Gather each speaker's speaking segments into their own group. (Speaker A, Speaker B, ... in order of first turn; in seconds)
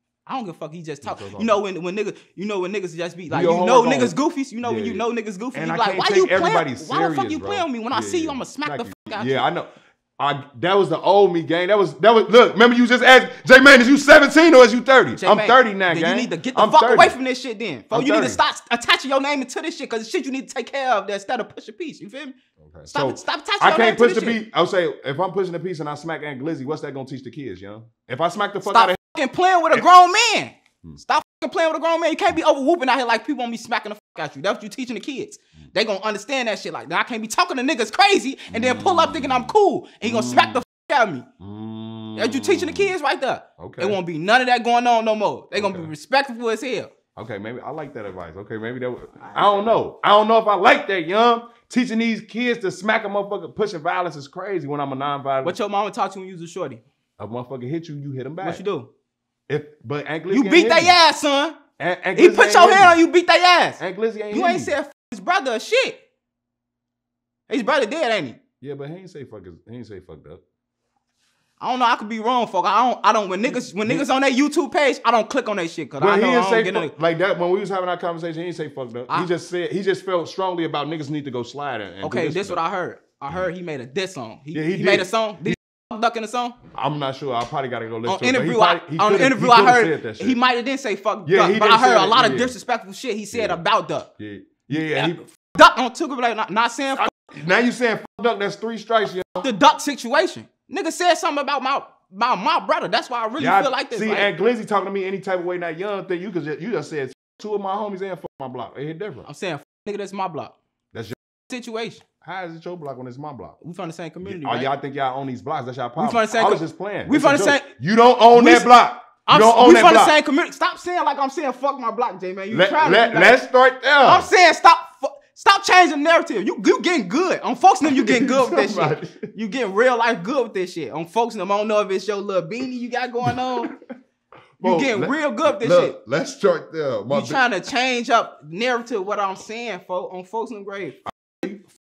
Speaker A: 0.2-9.4, 15.2-22.4, 22.9-24.4, 28.6-41.3, 42.1-46.9, 49.2-49.7, 55.4-56.8, 58.4-58.9, 60.3-61.6, 62.1-63.8, 64.3-66.0, 67.5-68.4, 71.6-76.9, 82.0-86.6, 88.0-94.1, 94.7-97.1, 99.4-104.3, 109.2-110.6, 111.5-112.0, 113.6-114.7, 116.0-117.7, 118.3-118.7, 119.2-123.4, 124.0-133.7, 134.6-135.9, 137.1-141.0
Speaker B: 1.0-1.6, 3.3-17.1, 17.9-18.4, 22.6-29.0, 38.5-40.6, 41.4-42.9, 43.6-44.0, 45.5-45.9, 47.1-55.6, 57.2-58.6, 59.5-60.9, 61.8-63.0, 63.8-64.7, 68.6-70.4, 73.5-74.0, 76.0-82.6, 84.5-85.5, 86.7-90.4, 91.2-92.5, 93.3-93.6, 94.2-95.2, 97.0-99.5, 103.4-109.3, 112.2-113.6, 114.2-120.1, 122.5-124.3, 127.8-129.3, 133.2-133.8, 134.6-137.4, 141.3-141.6